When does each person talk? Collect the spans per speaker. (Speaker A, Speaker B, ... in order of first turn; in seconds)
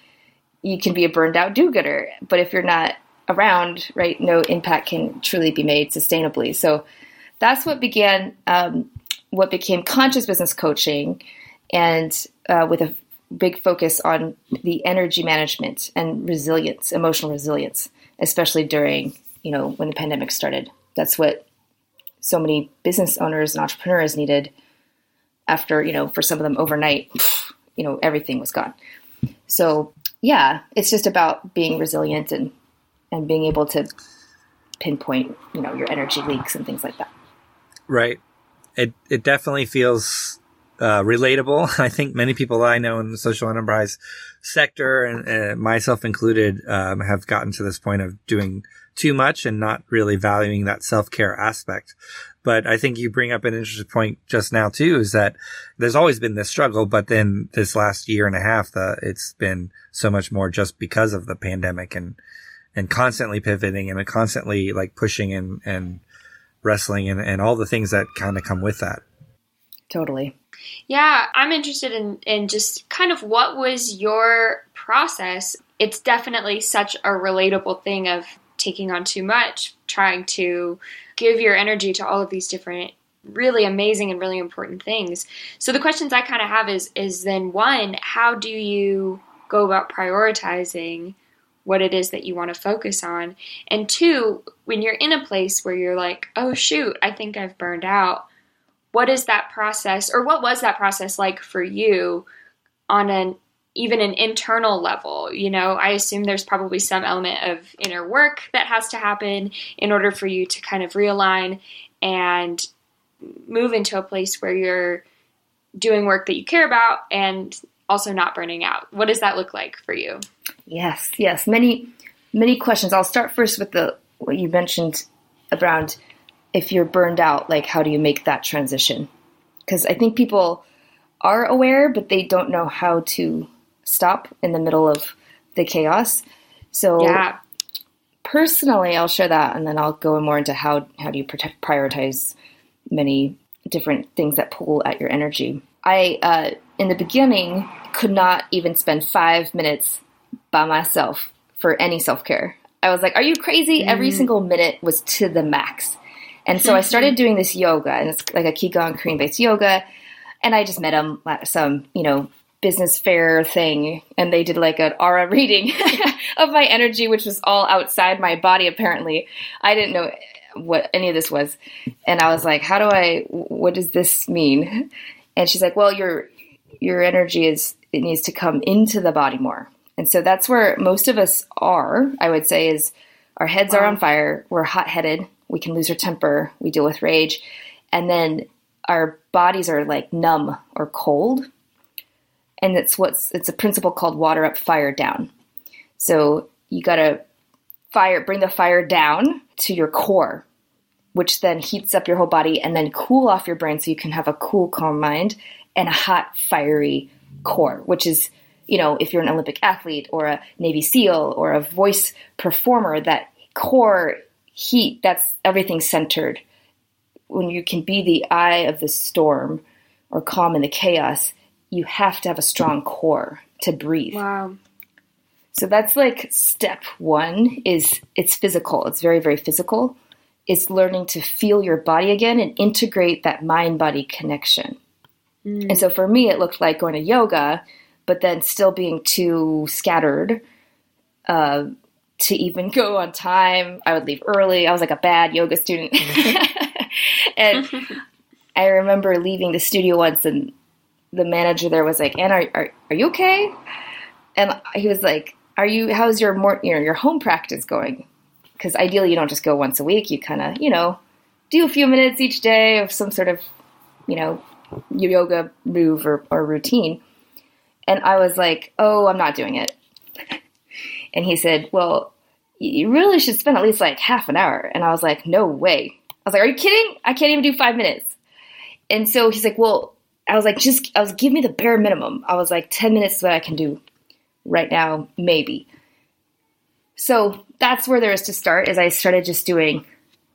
Speaker A: 0.6-6.8, 7.4-11.2, 11.7-21.4, 22.2-24.5, 25.5-28.8, 29.5-32.5, 33.1-33.9, 34.8-37.1, 69.9-70.3, 120.7-126.0, 126.5-129.1, 129.7-130.6, 131.2-137.2, 138.2-142.3, 142.9-150.0, 150.5-159.8, 160.4-174.8, 175.4-176.3, 176.8-191.5, 192.6-195.3, 196.0-197.2, 197.9-200.4, 201.1-216.4, 217.3-224.2, 225.5-234.8, 235.7-240.4, 241.3-247.9, 248.6-250.5, 251.1-253.6, 254.4-258.1, 258.6-261.0, 261.5-263.5, 264.1-267.0, 267.9-269.8, 271.1-278.2, 278.9-283.8, 284.4-285.7, 287.0-289.8
Speaker B: 37.9-38.2, 38.8-62.2, 62.8-66.0, 66.6-69.0
Speaker C: 70.9-98.2, 98.9-102.3, 102.9-112.7, 113.2-115.0, 115.8-120.2, 137.0-137.4, 153.8-154.3, 156.6-157.2, 183.7-184.0, 224.1-224.6, 235.4-235.9